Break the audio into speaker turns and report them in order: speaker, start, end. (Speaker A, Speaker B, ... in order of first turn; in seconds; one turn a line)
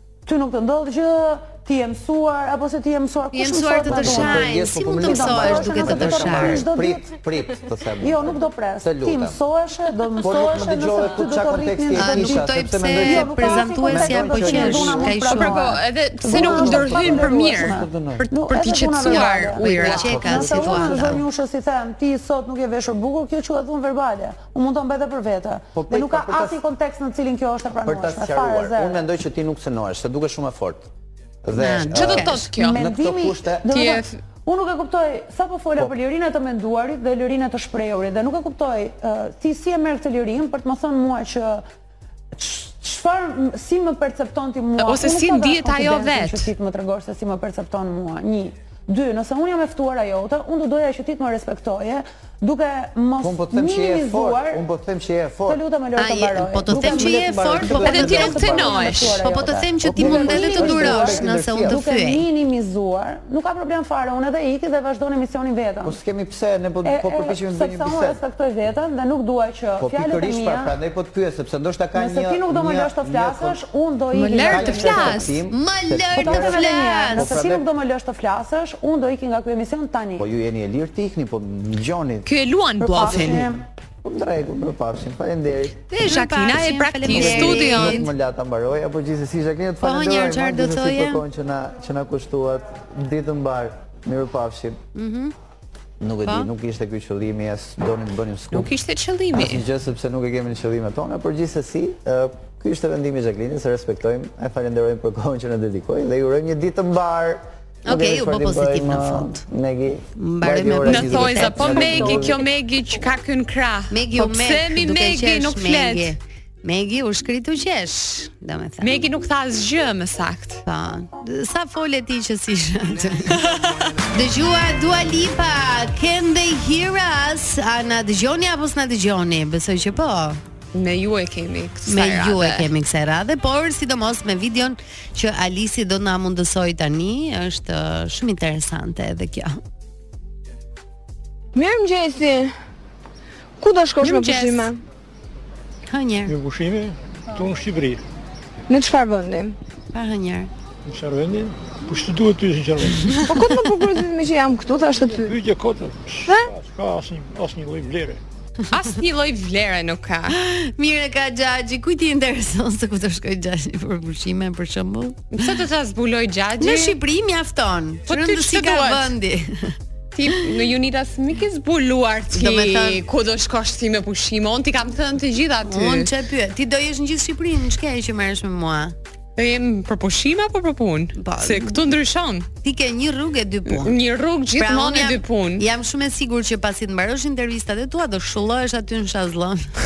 Speaker A: 0.3-7.1
Speaker B: 3.3-6.7
Speaker C: 3.9-9.4
Speaker A: 8.0-29.0
Speaker C: 10.2-15.3
Speaker B: 11.9-15.6
Speaker D: 15.3-20.8
Speaker C: 16.3-18.2
Speaker B: 19.0-21.2
Speaker C: 19.9-21.2
Speaker C: 25.8-26.6
Speaker C: 27.9-30.9
Speaker C: 31.4-33.7
Speaker B: 31.6-32.4
Speaker D: 31.9-32.8
Speaker A: 32.6-41.6
Speaker D: 33.7-34.2
Speaker A: 42.4-54.6
Speaker D: 44.8-46.5
Speaker C: 53.2-55.6
Speaker A: 55.5-66.0
Speaker B: 56.0-62.3
Speaker C: 56.6-59.0
Speaker D: 57.8-59.2
Speaker C: 59.8-61.8
Speaker C: 65.8-68.2
Speaker A: 66.8-70.8
Speaker C: 69.8-73.6
Speaker A: 72.0-75.3
Speaker D: 74.1-75.4
Speaker C: 74.3-77.7
Speaker B: 75.5-77.4
Speaker A: 76.1-80.3
Speaker C: 80.2-82.3
Speaker D: 82.3-83.5
Speaker A: 82.8-83.6
Speaker C: 83.0-85.8
Speaker D: 85.9-88.1
Speaker B: 86.0-88.1
Speaker C: 87.1-94.8
Speaker B: 89.8-91.2
Speaker B: 95.0-95.3
Speaker C: 96.0-98.7
Speaker D: 98.5-99.6
Speaker C: 99.3-112.4
Speaker B: 107.9-109.4
Speaker B: 110.2-112.4
Speaker D: 110.8-116.1
Speaker B: 113.9-119.1
Speaker D: 118.8-120.6
Speaker B: 120.7-123.4
Speaker D: 123.3-123.9
Speaker B: 124.1-130.4
Speaker D: 130.7-132.7
Speaker B: 131.9-139.6
Speaker E: 141.6-142.5
Speaker E: 143.6-144.8
Speaker D: 144.0-144.7
Speaker B: 145.9-146.3
Speaker F: 146.3-148.0
Speaker E: 148.7-149.6
Speaker B: 149.9-150.5
Speaker F: 150.9-153.2
Speaker E: 153.3-155.3
Speaker F: 155.2-158.2
Speaker E: 156.3-156.5
Speaker D: 158.7-160.4
Speaker B: 160.3-165.3
Speaker D: 165.3-167.0
Speaker B: 166.6-169.8
Speaker D: 168.1-169.1
Speaker D: 170.1-176.1
Speaker B: 172.3-173.0
Speaker B: 175.7-178.9
Speaker D: 179.4-182.5
Speaker B: 181.2-181.8
Speaker B: 182.6-184.0
Speaker D: 183.7-185.7
Speaker B: 184.6-189.7